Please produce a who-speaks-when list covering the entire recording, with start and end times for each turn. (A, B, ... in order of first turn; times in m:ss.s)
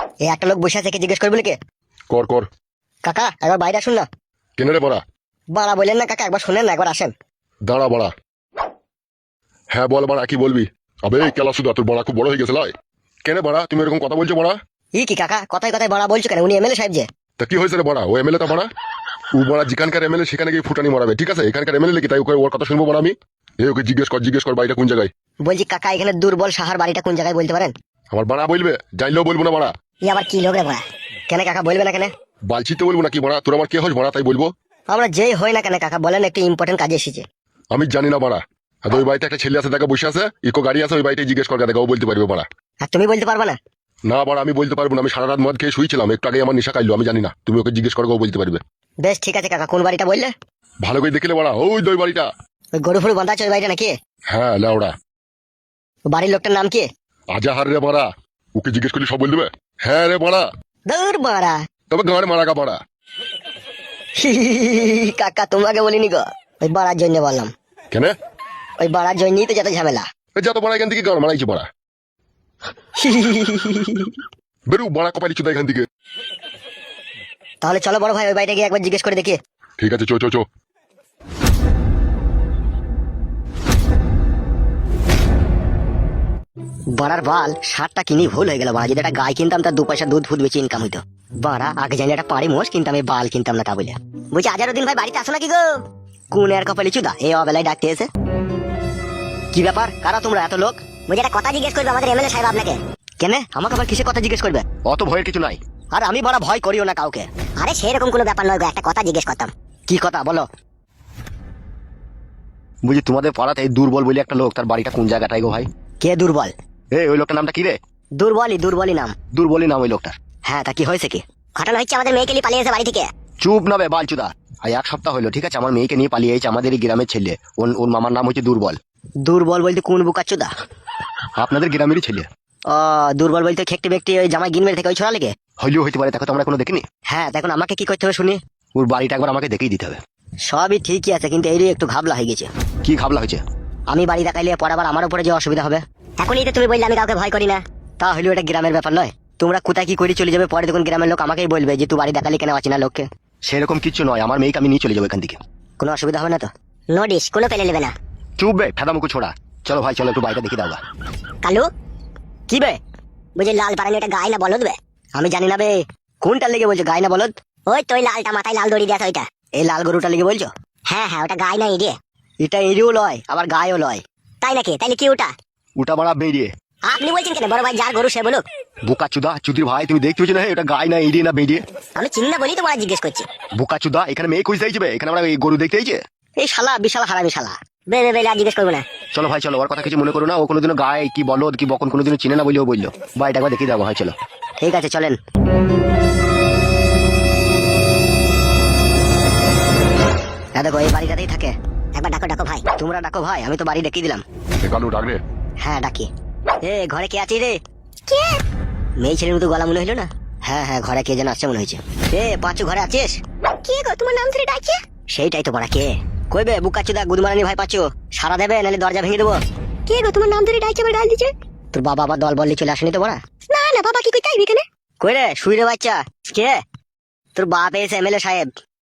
0:00.2-0:01.6 A
0:02.1-0:02.5 B
0:03.0-0:04.0 A
0:04.6-0:05.0 B
0:05.5-0:07.1 A
0:07.7-0:08.1 B
0:09.7-0:12.7 B
0:13.2-0:14.6 B
0:15.0-0:17.0 A
0:17.4-0:18.7 B
0:19.4-0:25.1 B
0:25.4-0:27.7 A
0:28.1-0:29.7 B
0:30.0-0:32.1 A
0:32.5-0:34.5 B
0:34.9-0:37.2 A
0:37.7-0:42.5 B
0:42.8-0:43.6 A
0:44.1-0:48.6 B
0:49.0-0:50.3 A
0:50.8-0:52.3 B
0:52.8-0:53.9 A
0:54.3-0:54.9 B
0:56.1-0:56.9 A
0:57.4-1:00.4 B
1:00.9-1:01.6 A
1:01.9-1:02.8 B
1:04.2-1:07.5 A
1:08.8-1:10.0 A
1:10.4-1:11.7 B
1:13.0-1:14.1 A
1:14.7-1:15.8 B
1:17.6-1:19.4 A
1:19.8-1:20.4 B
1:27.0-1:35.8 A
1:36.3-1:38.1 A
1:39.5-1:44.6 A
1:44.9-1:45.6 C
1:45.9-1:50.5 A
1:52.8-1:55.7 C
1:56.0-1:56.5 A
1:56.9-1:57.8 C
1:58.2-1:59.1 A
1:59.3-2:00.2 C
2:00.5-2:03.0 A
2:03.4-2:08.8 C
2:09.2-2:10.5 A
2:11.4-2:12.3 C
2:12.7-2:15.3 A
2:15.6-2:16.8 C
2:17.1-2:18.4 A
2:18.8-2:20.0 C
2:20.5-2:22.5 A
2:22.8-2:23.4 C
2:23.9-2:33.0 A
2:33.4-2:35.4 C
2:35.8-2:37.9 A
2:38.4-2:40.8 C
2:42.5-2:42.8 A
2:43.4-2:55.3 A
2:55.8-2:56.5 C
2:56.9-2:58.4 A
2:58.9-3:01.6 C
3:02.0-3:03.2 A
3:03.6-3:06.0 C
3:06.4-3:08.8 A
3:09.1-3:14.2 C
3:14.6-3:15.2 A
3:20.6-3:24.2 A
3:24.6-3:25.2 B
3:25.6-3:26.1 A
3:26.6-3:27.6 A
3:28.1-3:28.4 A
3:29.0-3:46.6 A
3:47.3-3:48.5 A